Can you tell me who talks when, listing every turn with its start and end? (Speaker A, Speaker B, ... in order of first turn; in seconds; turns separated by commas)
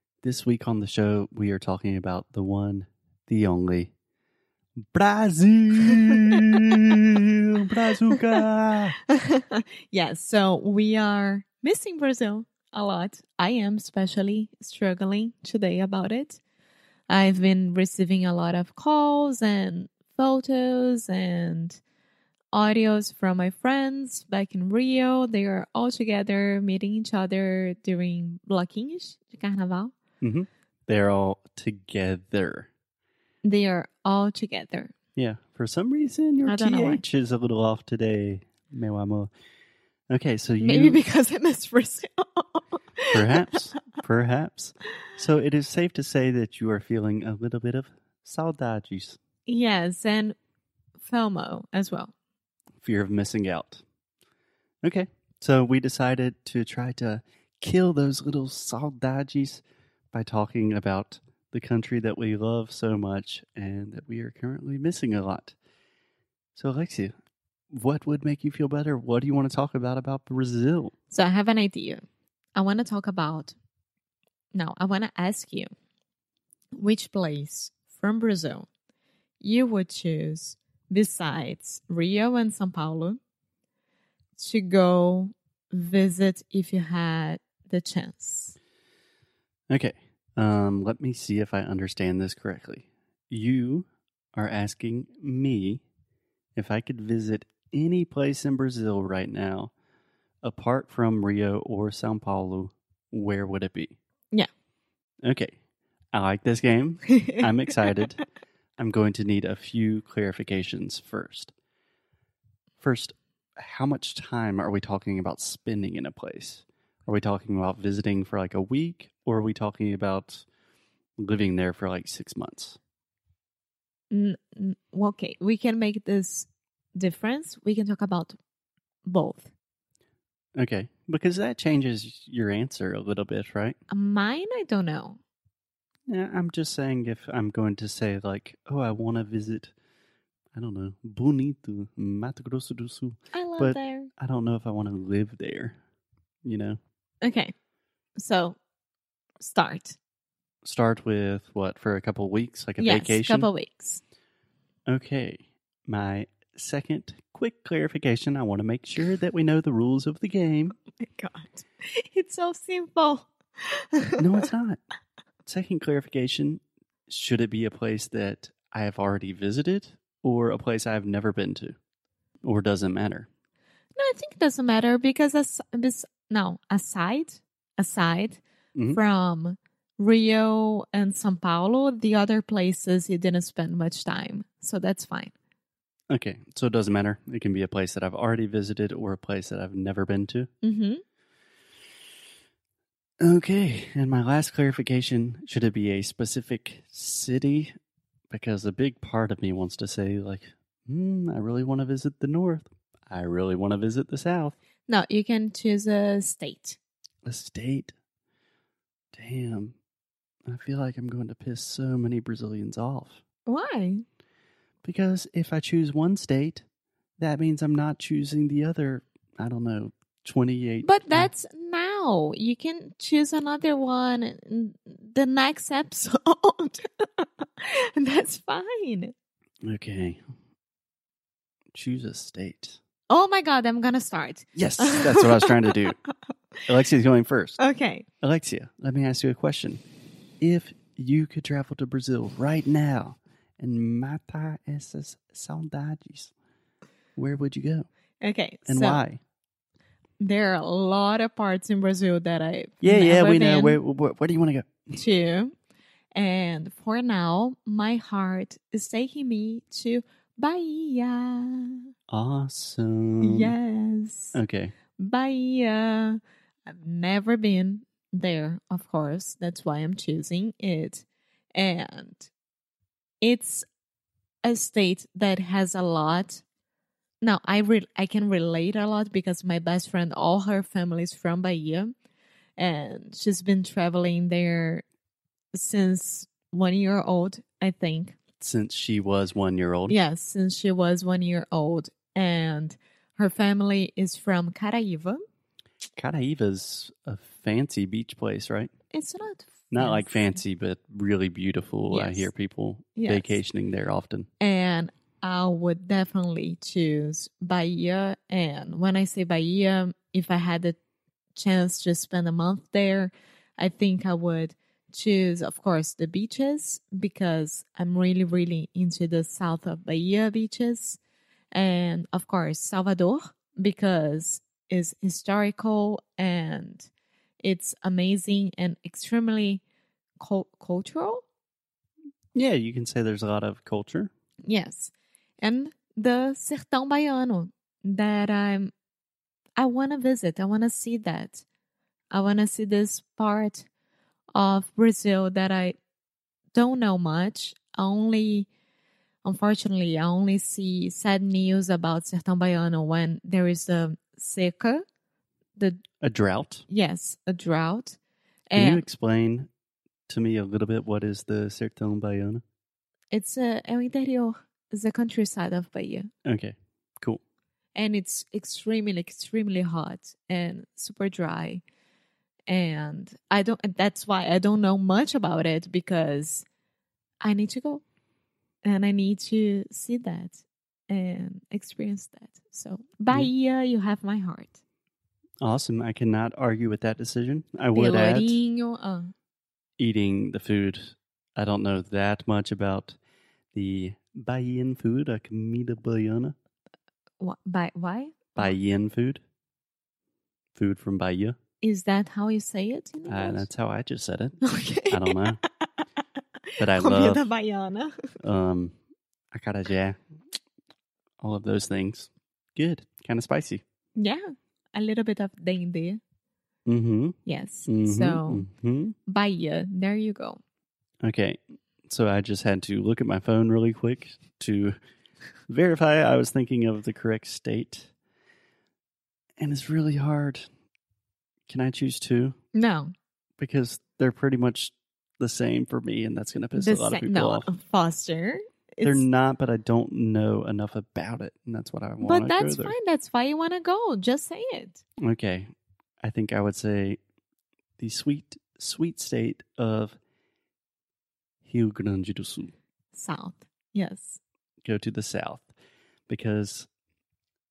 Speaker A: 0.2-3.9, Speaker A: 4.8-9.0, Speaker B: 8.1-8.4, Speaker B: 9.1-16.4, Speaker B: 17.1-21.8, Speaker B: 22.5-29.9, Speaker A: 30.2-32.7, Speaker B: 33.4-34.9, Speaker A: 35.2-39.3, Speaker B: 36.4-37.0, Speaker A: 40.1-41.0, Speaker B: 40.6-43.4, Speaker A: 43.1-49.2, Speaker B: 49.5-50.4, Speaker B: 51.0-52.1, Speaker A: 52.8-53.8, Speaker A: 54.8-65.6, Speaker A: 66.5-67.1, Speaker A: 67.7-70.9, Speaker B: 71.1-72.0, Speaker B: 72.5-73.6, Speaker B: 74.5-75.7, Speaker B: 76.8-78.7, Speaker B: 79.4-83.2, Speaker B: 84.4-88.5, Speaker A: 89.7-95.8, Speaker A: 96.6-99.7, Speaker A: 100.4-104.0, Speaker A: 105.2-105.5, Speaker A: 106.1-108.2, Speaker B: 107.1-107.5, Speaker A: 108.8-111.5, Speaker A: 112.8-120.5, Speaker A: 121.2-122.8, Speaker B: 124.1-128.4, Speaker B: 129.1-129.5, Speaker A: 130.6-133.8, Speaker B: 133.9-135.2, Speaker A: 136.1-139.7, Speaker A: 140.6-145.8, Speaker B: 143.3-144.1, Speaker A: 146.4-146.8, Speaker B: 147.2-147.5, Speaker B: 148.2-148.6, Speaker B: 149.4-150.0, Speaker A: 150.7-153.5, Speaker B: 152.8-154.0, Speaker A: 154.9-160.8, Speaker B: 161.0-164.4, Speaker A: 164.2-164.8, Speaker A: 165.5-171.8, Speaker A: 172.4-173.3, Speaker B: 174.0-185.3, Speaker A: 178.8-179.0, Speaker A: 186.1-190.5, Speaker B: 190.6-191.0, Speaker A: 193.2-197.7, Speaker A: 198.3-204.6, Speaker B: 204.9-206.8, Speaker A: 207.2-207.9, Speaker A: 209.1-209.8, Speaker A: 210.5-213.2, Speaker B: 213.5-214.0, Speaker A: 214.8-216.7, Speaker A: 217.2-221.3, Speaker B: 220.8-229.2, Speaker A: 229.7-230.2, Speaker A: 231.7-232.8, Speaker B: 233.1-236.1, Speaker A: 234.6-236.0, Speaker A: 236.7-237.6, Speaker B: 237.6-238.1, Speaker A: 238.2-239.8, Speaker A: 240.4-246.3, Speaker A: 247.2-247.9, Speaker B: 248.2-249.0, Speaker A: 248.7-249.2, Speaker B: 250.2-253.8, Speaker A: 252.8-254.9, Speaker B: 254.9-255.5, Speaker B: 256.1-261.9, Speaker A: 262.1-263.5, Speaker B: 263.2-264.4, Speaker A: 264.4-264.7, Speaker B: 265.0-272.3, Speaker B: 273.2-273.6, Speaker B: 274.4-276.4, Speaker B: 277.2-281.9, Speaker B: 282.6-284.8, Speaker B: 285.5-288.2, Speaker A: 288.4-290.0, Speaker B: 289.9-295.2, Speaker A: 296.0-298.7, Speaker B: 298.9-300.4, Speaker A: 299.7-304.3, Speaker B: 301.9-302.3, Speaker B: 303.0-303.4, Speaker B: 304.4-310.8, Speaker B: 311.4-321.0, Speaker B: 321.5-326.9, Speaker B: 327.4-329.6, Speaker B: 330.2-331.2, Speaker A: 332.4-334.1, Speaker B: 334.4-338.7, Speaker B: 339.6-341.4, Speaker B: 342.1-343.7, Speaker B: 344.4-345.8, Speaker B: 346.5-348.5, Speaker B: 349.2-354.8, Speaker B: 355.6-355.8, Speaker A: 356.0-356.6, Speaker B: 356.7-358.0, Speaker B: 358.5-358.9, Speaker A: 358.6-359.5, Speaker A: 360.1-362.4, Speaker B: 363.1-366.1, Speaker A: 366.2-367.2, Speaker B: 367.8-371.6, Speaker B: 372.5-376.5, Speaker B: 377.2-377.8, Speaker B: 378.6-384.6, Speaker A: 385.4-388.4, Speaker B: 387.7-389.1, Speaker A: 389.8-393.0, Speaker A: 393.5-396.3, Speaker B: 397.2-398.6, Speaker A: 398.4-399.2, Speaker A: 400.6-401.4, Speaker B: 401.6-403.5, Speaker A: 403.1-405.4, Speaker B: 404.4-406.0, Speaker B: 406.6-408.2, Speaker A: 406.6-407.2, Speaker A: 408.2-408.8, Speaker A: 409.3-410.0, Speaker A: 411.2-413.6, Speaker B: 414.0-416.0, Speaker A: 416.7-418.9, Speaker B: 417.3-418.5, Speaker B: 419.1-420.4, Speaker A: 421.0-424.8, Speaker A: 425.5-427.9, Speaker A: 429.4-430.4, Speaker A: 431.5-432.4, Speaker B: 432.5-432.9, Speaker A: 433.4-437.5, Speaker B: 436.5-439.1, Speaker A: 438.8-442.8, Speaker B: 442.0-444.8, Speaker A: 445.0-445.5, Speaker A: 446.0-447.0, Speaker A: 447.8-450.0, Speaker A: 451.4-452.5, Speaker B: 452.9-454.2, Speaker A: 454.6-455.5, Speaker A: 456.1-456.7